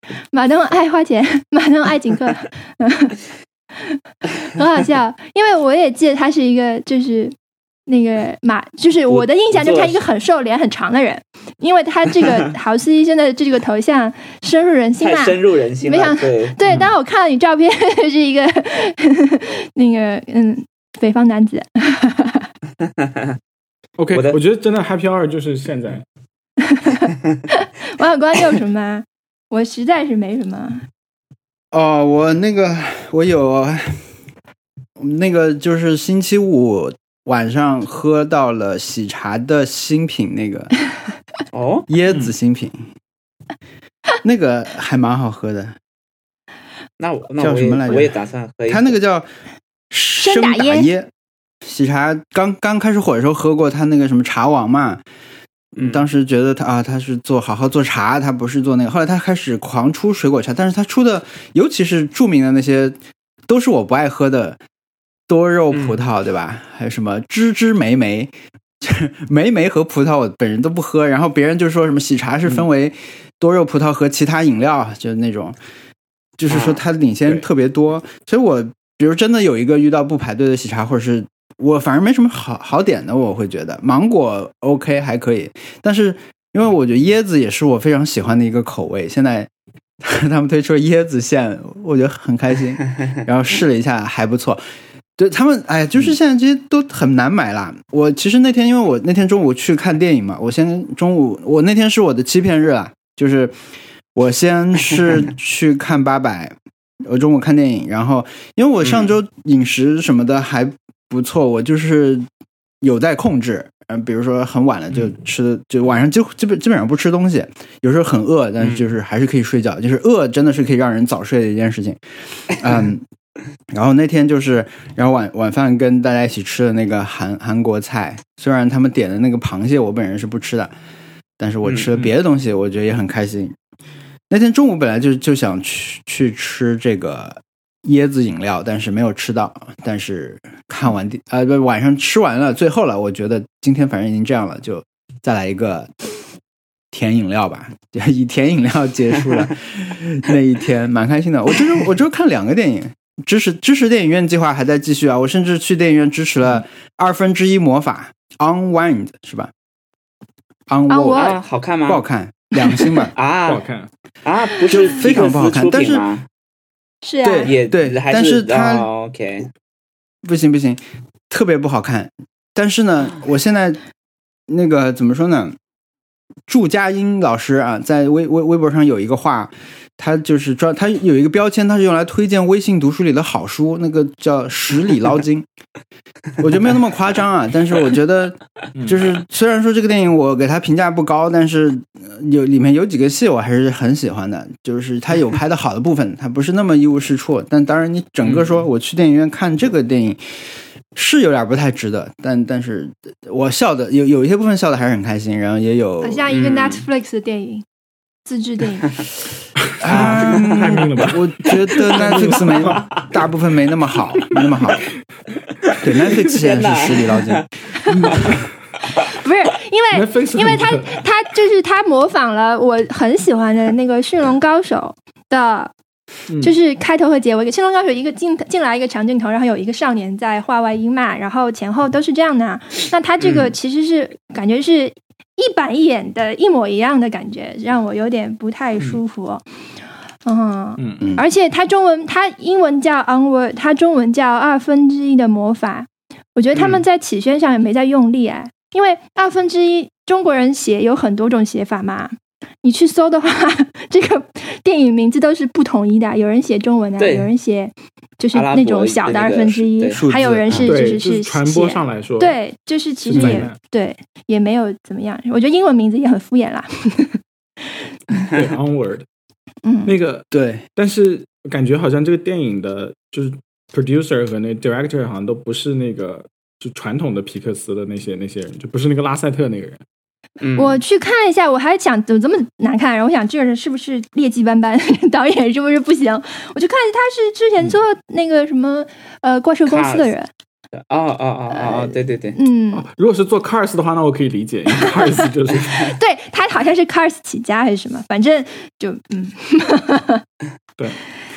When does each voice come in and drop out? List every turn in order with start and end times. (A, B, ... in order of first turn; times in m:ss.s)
0:00.3-0:03.2 A
0:03.8-0:07.3 A
0:07.9-0:22.5 A
0:09.1-0:10.0 B
0:15.0-0:16.6 B
0:24.0-0:26.0 C
0:24.1-0:24.4 B
0:26.7-0:30.8 A
0:31.7-0:34.0 D
0:35.0-0:40.7 D
0:41.5-0:41.8 B
0:41.9-0:42.9 D
0:44.2-0:45.8 D
0:47.0-0:48.9 B
0:47.4-0:48.2 D
0:48.7-0:49.3 D
0:49.9-0:51.1 D
0:50.2-0:50.9 A
0:51.6-0:55.0 D
0:55.8-0:56.0 B
0:55.8-1:02.9 D
1:03.5-1:04.6 D
1:05.3-1:15.6 D
1:05.7-1:06.0 B
1:16.4-1:29.5 D
1:16.5-1:16.8 B
1:30.0-1:34.6 D
1:35.2-1:43.6 D
1:44.1-1:52.2 D
1:48.8-1:49.1 B
1:52.8-2:03.0 D
1:58.6-1:58.8 B
2:03.7-2:10.7 D
2:11.4-2:13.6 D
2:11.6-2:11.9 B
2:14.3-2:26.0 D
2:26.9-2:39.5 D
2:40.7-2:41.3 D
2:40.9-2:41.4 A
2:41.1-2:42.0 B
2:41.8-2:43.1 D
2:42.6-2:43.0 A
2:43.1-2:43.6 B
2:43.5-2:43.9 C
2:44.2-2:46.2 B
2:44.7-2:46.1 D
2:47.0-2:47.5 A
2:47.2-2:48.9 D
2:47.4-2:49.5 B
2:50.2-2:53.8 D
2:54.5-2:55.6 D
2:56.5-3:05.5 D
3:06.4-3:20.4 D
3:08.7-3:09.0 C
3:20.9-3:26.3 D
3:26.0-3:27.6 A
3:26.3-3:26.8 B
3:28.2-3:29.0 A
3:29.6-3:32.9 C
3:29.8-3:34.8 D
3:35.7-3:37.4 B
3:35.8-3:37.4 D
3:37.9-3:38.5 C
3:39.0-3:45.7 A
3:39.9-3:41.0 C
3:46.3-3:46.6 C
3:46.4-3:59.4 A
3:53.2-3:53.5 B
4:00.2-4:27.2 A
4:00.8-4:01.0 C
4:01.0-4:01.2 D
4:17.0-4:17.3 B
4:18.3-4:20.0 B
4:19.9-4:20.7 D
4:20.5-4:22.4 C
4:23.0-4:23.6 C
4:23.1-4:23.5 D
4:28.3-4:29.0 C
4:29.6-4:29.9 A
4:29.8-4:39.8 C
4:30.3-4:30.6 D
4:40.4-4:40.8 B
4:40.6-4:50.3 A
4:49.7-4:50.1 B
4:50.7-4:52.4 B
4:51.5-4:52.8 A
4:52.7-4:55.9 C
4:55.8-5:00.2 A